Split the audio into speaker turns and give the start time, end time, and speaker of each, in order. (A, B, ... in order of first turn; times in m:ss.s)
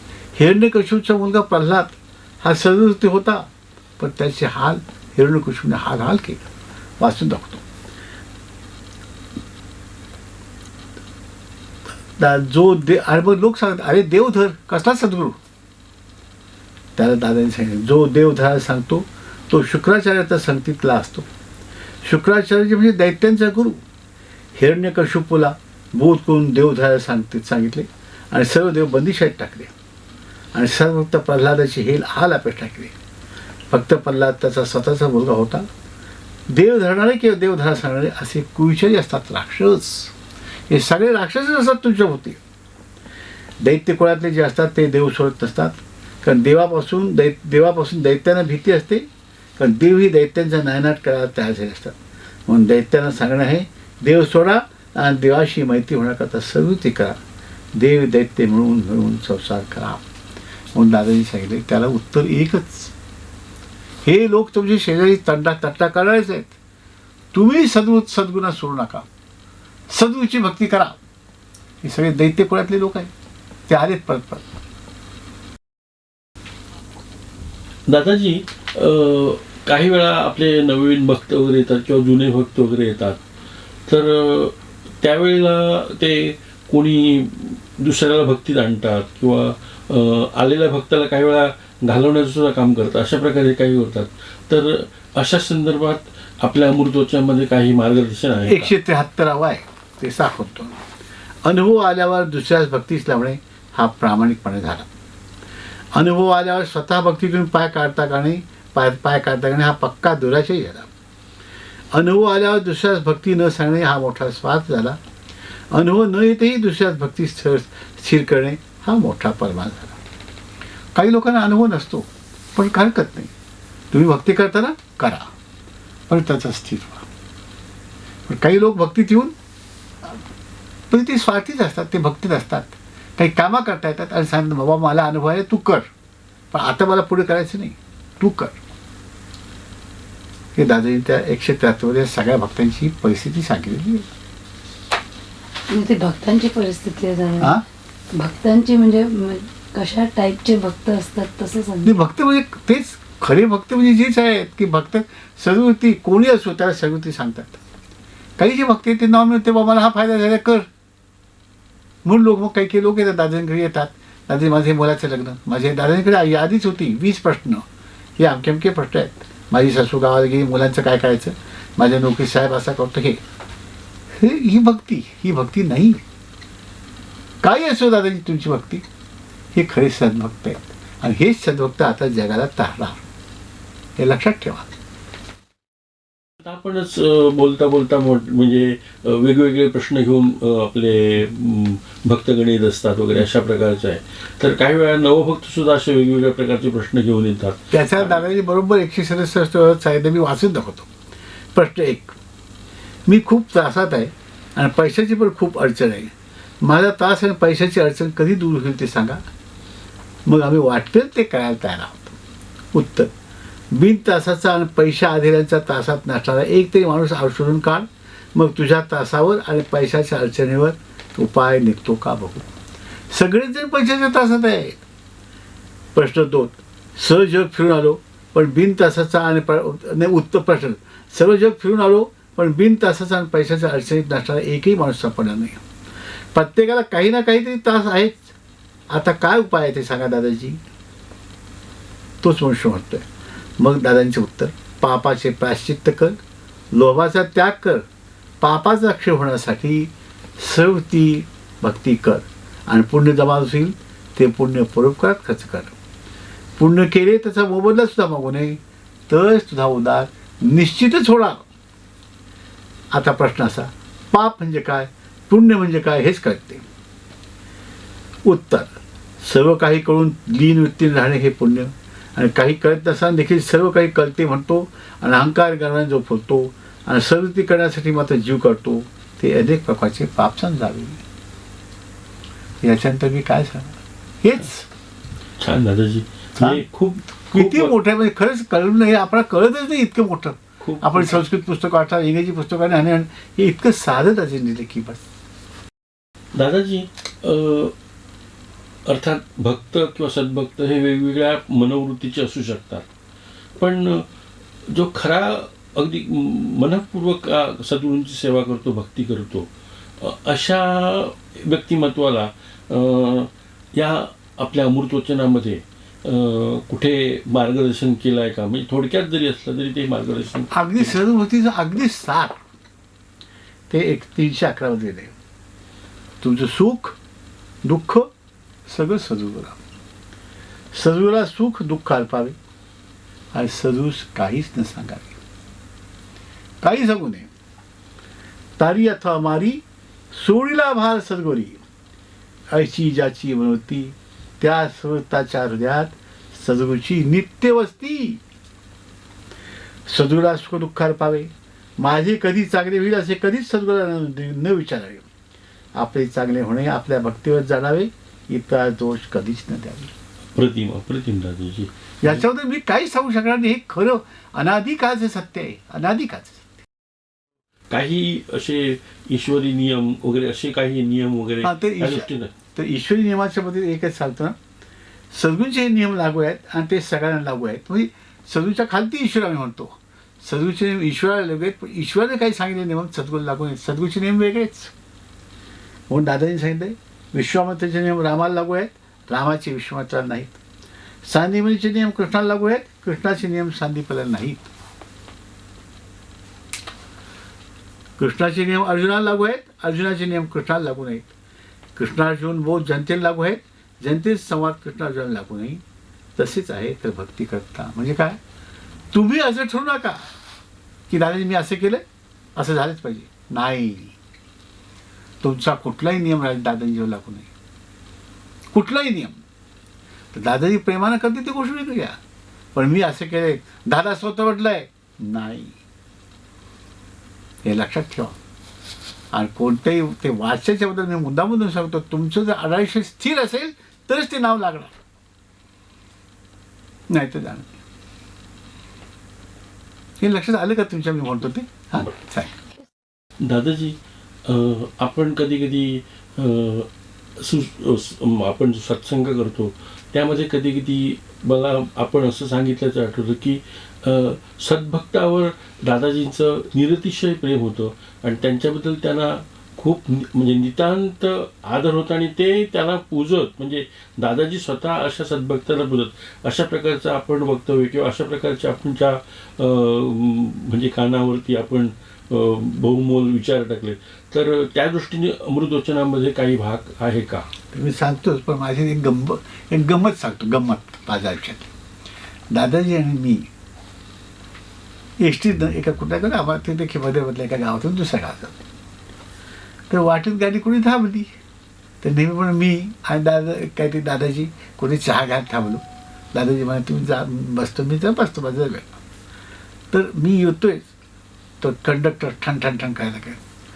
0:00.4-0:03.5 A
0:04.0-0:06.5 A
0:07.0-0:07.6 A
0:12.2-0:15.4 A
0:17.0-0:21.3 A
0:22.0-0:23.8 A
0:24.5-0:29.7 A
0:30.5-0:32.9 A
0:33.7-0:35.7 A
0:36.5-0:40.1 A
0:40.7-0:42.4 A
0:43.6-0:52.0 A
0:52.5-0:57.2 A
0:57.7-1:00.0 A
1:00.7-1:02.9 A
1:04.0-1:06.6 A
1:07.3-1:09.0 A
1:09.9-1:11.0 A
1:11.8-1:13.1 A
1:13.7-1:14.4 A
1:17.9-1:23.2 B
1:23.9-1:38.7 B
1:38.4-1:40.8 A
1:41.4-1:44.9 A
1:45.9-1:50.9 A
1:51.9-1:55.0 A
1:55.7-2:00.0 A
2:00.9-2:03.3 A
2:03.9-2:05.3 A
2:06.1-2:07.0 A
2:08.3-2:09.3 A
2:10.9-2:15.8 A
2:16.5-2:18.6 A
2:20.5-2:24.1 A
2:25.7-2:27.6 C
2:27.4-2:27.6 A
2:28.1-2:31.9 C
2:31.8-2:37.6 A
2:38.4-2:40.7 A
2:42.0-2:47.6 A
2:48.2-2:53.2 A
2:54.1-2:56.0 A
2:57.4-2:58.8 A
2:59.5-3:03.0 A
3:04.0-3:04.7 A
3:06.4-3:18.2 B
3:17.7-3:20.9 A
3:21.5-3:22.2 A
3:23.1-3:29.2 A
3:30.2-3:32.2 A
3:32.7-3:33.1 A
3:33.7-3:42.5 A
3:43.1-3:44.8 A
3:45.9-3:55.6 A
3:56.3-3:58.3 A
3:58.9-4:00.6 A
4:02.2-4:03.0 A
4:03.6-4:06.2 A
4:06.7-4:07.8 A
4:08.4-4:15.8 A
4:16.6-4:21.4 A
4:22.9-4:26.6 A
4:28.2-4:41.0 A
4:42.6-4:44.7 A
4:45.4-4:47.8 B
4:46.4-4:46.6 A
4:47.3-4:55.0 A
4:50.6-4:51.2 B
4:56.3-4:57.7 B
4:58.8-5:02.8 B
5:03.6-5:04.1 B
5:04.7-5:09.5 B
5:10.0-5:21.0 B
5:20.5-5:22.4 A
5:23.7-5:25.1 A
5:26.2-5:27.0 A
5:27.6-5:28.1 A
5:28.7-5:29.6 A
5:30.7-5:32.4 A
5:33.3-5:35.2 A
5:36.6-5:37.3 A
5:38.6-5:41.6 A
5:42.5-5:48.2 A
5:49.9-5:55.1 A
5:55.7-5:59.9 A
6:00.3-6:02.2 B
6:02.0-6:06.5 A
6:07.7-6:12.3 B
6:11.4-6:14.4 A
6:15.1-6:24.7 A
6:25.9-6:30.4 A
6:31.0-6:34.5 A
6:38.0-6:41.1 A
6:41.8-6:45.6 A
6:46.2-6:48.2 A
6:48.9-6:50.1 A
6:50.9-6:51.8 A
6:52.3-6:54.0 A
6:55.2-6:57.3 A
6:58.5-6:59.2 A
7:00.1-7:02.0 A
7:02.5-7:05.5 A
7:07.4-7:08.1 A
7:09.1-7:14.7 A
7:16.9-7:17.5 A
7:20.0-7:22.3 A
7:23.2-7:26.7 B
7:27.2-7:57.3 B
7:57.5-8:01.5 A
8:02.3-8:03.3 A
8:05.0-8:08.4 A
8:09.7-8:11.1 A
8:11.8-8:15.6 A
8:16.1-8:18.8 A
8:19.7-8:20.7 A
8:21.4-8:23.2 A